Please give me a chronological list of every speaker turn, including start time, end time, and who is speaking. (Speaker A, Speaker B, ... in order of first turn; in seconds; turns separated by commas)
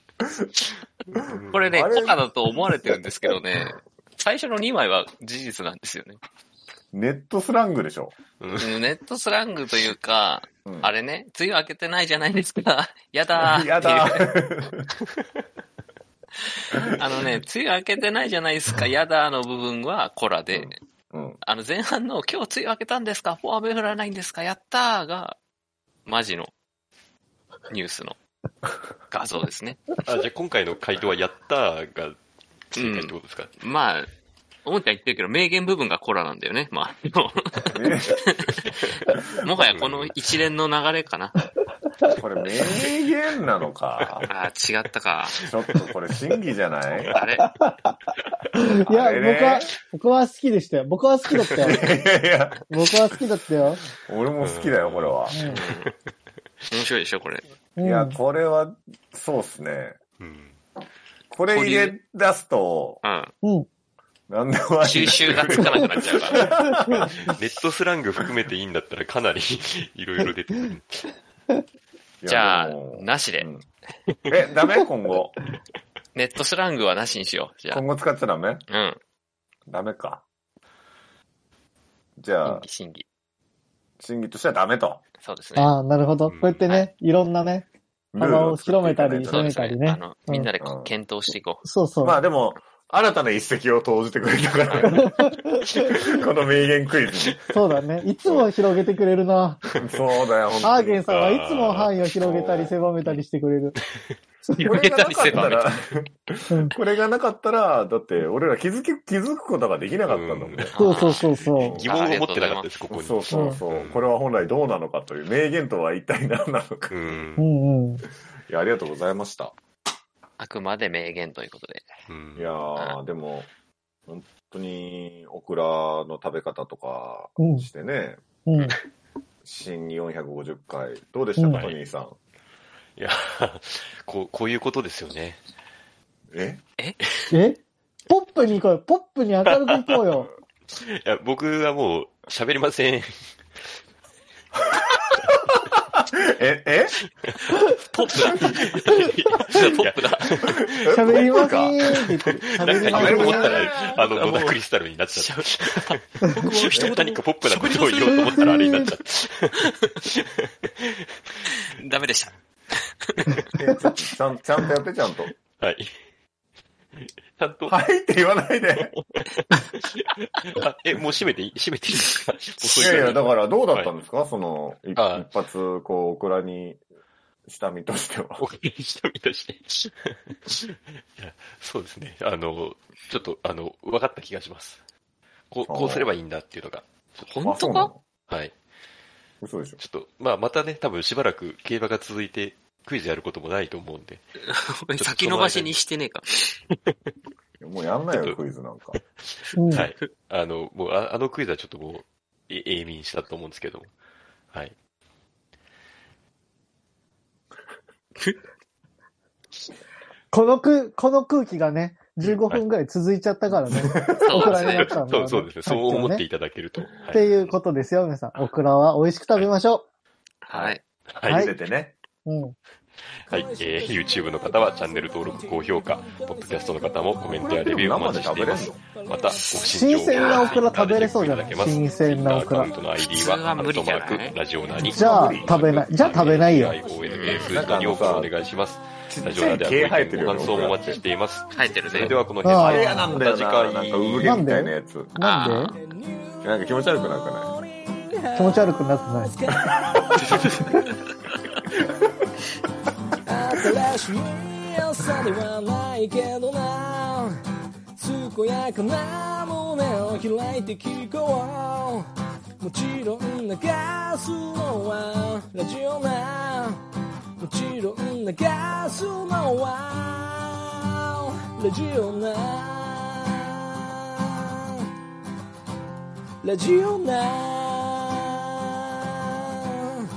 Speaker A: 1.1-1.9, Speaker B: 1.5-6.2, Speaker C: 1.7-2.2, Speaker C: 6.9-8.1, Speaker A: 8.4-8.8, Speaker B: 8.6-14.3, Speaker C: 10.7-10.9, Speaker C: 13.3-14.9, Speaker B: 16.8-20.8, Speaker C: 20.5-21.4, Speaker B: 21.4-25.4, Speaker B: 26.1-26.5, Speaker B: 27.7-28.2, Speaker B: 29.1-29.9, Speaker A: 30.1-32.2, Speaker A: 32.7-33.5, Speaker B: 32.8-34.1, Speaker B: 34.6-41.4, Speaker C: 37.7-38.2, Speaker A: 39.6-40.1, Speaker C: 42.2-44.3, Speaker B: 44.3-45.4, Speaker A: 45.4-45.8, Speaker C: 45.5-47.2, Speaker B: 47.1-47.5, Speaker D: 47.4-47.9, Speaker D: 48.6-51.9, Speaker C: 48.9-49.7, Speaker C: 51.6-52.7, Speaker D: 52.7-53.8, Speaker C: 54.0-55.4, Speaker A: 54.4-55.9, Speaker D: 55.3-55.6, Speaker B: 55.4-55.9, Speaker B: 56.7-57.4, Speaker D: 57.8-58.2, Speaker C: 57.8-60.0, Speaker A: 60.2-60.6, Speaker C: 61.3-63.0, Speaker B: 61.5-62.0, Speaker B: 63.0-63.3, Speaker D: 63.4-63.7, Speaker C: 64.3-67.3, Speaker B: 64.8-66.4, Speaker D: 66.6-67.1, Speaker A: 67.2-71.1, Speaker C: 72.2-73.6, Speaker B: 72.3-73.5, Speaker C: 74.3-75.4, Speaker B: 76.2-77.8, Speaker C: 77.7-78.7, Speaker B: 78.7-79.0, Speaker C: 79.7-80.2, Speaker C: 82.2-82.6, Speaker B: 82.5-83.1, Speaker C: 84.0-85.0, Speaker B: 85.2-85.7, Speaker D: 85.6-87.7, Speaker A: 86.3-86.6, Speaker B: 86.7-86.9, Speaker C: 88.1-89.5, Speaker D: 88.2-90.5, Speaker B: 89.3-91.6, Speaker C: 90.6-90.9, Speaker D: 91.6-92.2, Speaker C: 92.0-95.2, Speaker D: 94.8-95.9, Speaker C: 95.9-97.4, Speaker D: 97.5-99.6, Speaker C: 98.2-98.5, Speaker C: 99.8-101.0, Speaker D: 100.6-103.8, Speaker A: 101.0-102.0, Speaker C: 102.2-102.8, Speaker B: 104.6-105.7, Speaker C: 104.6-110.7, Speaker D: 106.5-106.8, Speaker A: 110.1-114.0, Speaker B: 110.7-111.3, Speaker D: 110.8-111.8, Speaker C: 111.6-111.9, Speaker B: 111.8-112.8, Speaker C: 112.9-117.2, Speaker D: 113.3-113.6, Speaker A: 116.9-117.5, Speaker D: 117.4-118.0, Speaker C: 118.5-119.5, Speaker B: 120.4-121.9, Speaker A: 122.1-122.5, Speaker C: 122.4-123.5, Speaker C: 124.1-128.2, Speaker D: 127.4-127.7, Speaker D: 128.4-128.8, Speaker C: 129.4-132.2, Speaker D: 131.4-131.7, Speaker A: 133.0-135.4, Speaker C: 136.3-136.6, Speaker D: 137.3-140.3, Speaker A: 139.4-143.3, Speaker C: 146.0-147.0, Speaker B: 147.9-150.4, Speaker C: 148.2-148.6, Speaker A: 148.3-150.7, Speaker C: 150.4-152.0, Speaker D: 150.9-153.6, Speaker A: 151.9-156.0, Speaker C: 152.6-154.0, Speaker B: 152.9-154.6, Speaker B: 155.1-158.6, Speaker A: 156.6-159.6, Speaker C: 156.7-157.0, Speaker D: 158.2-158.9, Speaker A: 160.2-160.9, Speaker B: 161.8-162.3, Speaker B: 163.2-163.4, Speaker C: 163.6-165.3, Speaker A: 165.6-165.9, Speaker A: 167.0-167.8, Speaker C: 167.7-168.9, Speaker A: 169.5-173.9, Speaker C: 172.8-176.8, Speaker A: 174.9-175.3, Speaker C: 177.5-178.4, Speaker A: 178.4-184.8, Speaker A: 185.5-187.3, Speaker C: 185.7-186.1, Speaker B: 187.2-187.9, Speaker C: 187.4-188.0, Speaker A: 188.3-188.6, Speaker C: 189.4-189.8, Speaker A: 189.8-194.2, Speaker B: 194.4-196.5, Speaker A: 195.0-195.8, Speaker C: 197.6-199.0, Speaker A: 198.1-198.4, Speaker A: 199.0-203.9, Speaker D: 199.6-199.9, Speaker D: 210.3-216.2, Speaker A: 212.2-212.6, Speaker C: 213.9-214.5, Speaker B: 214.3-214.9, Speaker A: 214.5-217.6, Speaker D: 217.1-219.8, Speaker B: 220.4-220.8, Speaker A: 220.5-221.4, Speaker D: 221.3-221.6, Speaker C: 221.3-222.0, Speaker D: 222.2-222.6, Speaker A: 223.3-244.4, Speaker C: 227.3-228.8, Speaker D: 229.6-232.7, Speaker B: 230.1-230.5, Speaker B: 233.0-234.4, Speaker D: 234.8-236.8, Speaker C: 234.8-235.6, Speaker B: 237.1-237.6, Speaker C: 237.4-238.3, Speaker C: 239.1-241.0, Speaker B: 241.5-242.2, Speaker D: 242.4-243.2, Speaker C: 242.5-245.2, Speaker D: 244.2-245.8, Speaker B: 245.2-245.7, Speaker C: 246.4-247.5, Speaker D: 248.3-249.3, Speaker C: 250.3-250.6, Speaker E: 255.6-256.8, Speaker E: 258.1-261.8, Speaker E: 262.6-266.3, Speaker E: 267.5-269.7, Speaker E: 271.7-272.4, Speaker E: 276.9-277.3